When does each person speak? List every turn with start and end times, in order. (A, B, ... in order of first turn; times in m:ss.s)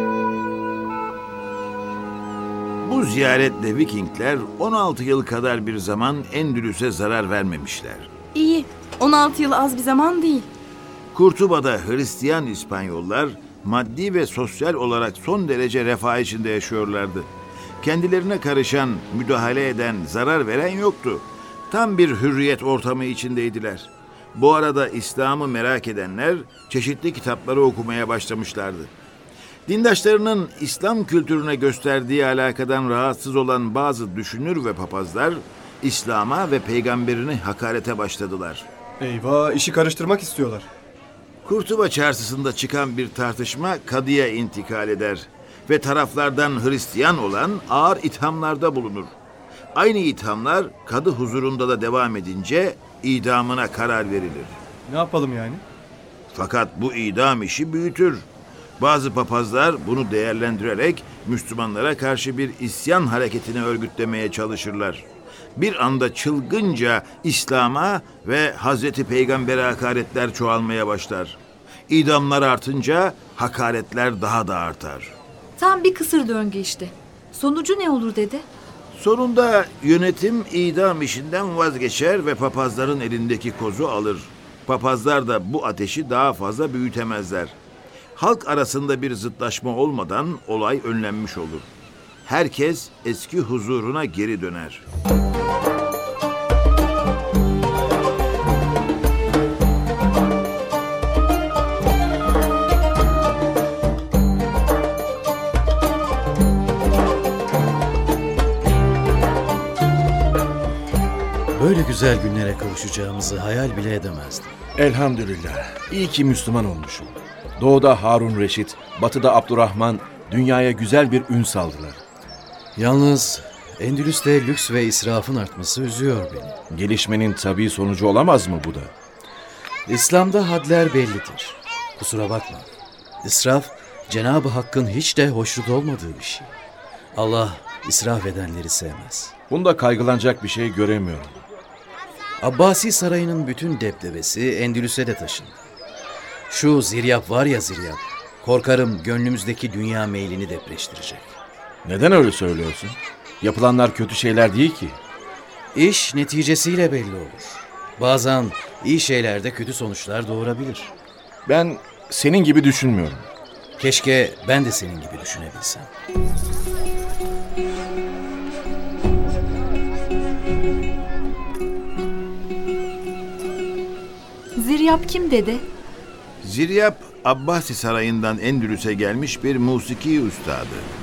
0:02.8-0:08.1 A
0:08.3-0:10.5 B
0:11.1-0:17.3 A
0:17.8-0:28.9 A
0:29.7-0:38.7 A
0:39.0-0:40.7 C
0:41.4-0:49.1 A
0:49.7-0:54.6 A
0:54.9-0:55.6 C
0:56.3-0:58.2 A
0:58.8-1:15.1 A
1:15.6-1:18.4 D
1:18.9-1:27.6 A
1:28.2-1:31.7 A
1:32.2-1:34.8 A
1:51.5-1:54.5 E
1:54.8-2:02.0 F
2:02.8-2:06.5 E
2:06.7-2:08.9 F
2:09.9-2:12.7 E
2:13.2-2:16.5 E
2:17.1-2:19.3 E
2:19.5-2:21.4 F
2:22.4-2:25.6 E
2:26.5-2:31.4 E
2:31.8-2:35.0 F
2:35.7-2:40.9 E
2:41.4-2:43.3 F
2:43.8-2:45.9 E
2:54.5-2:55.6 D
2:56.4-3:00.9 A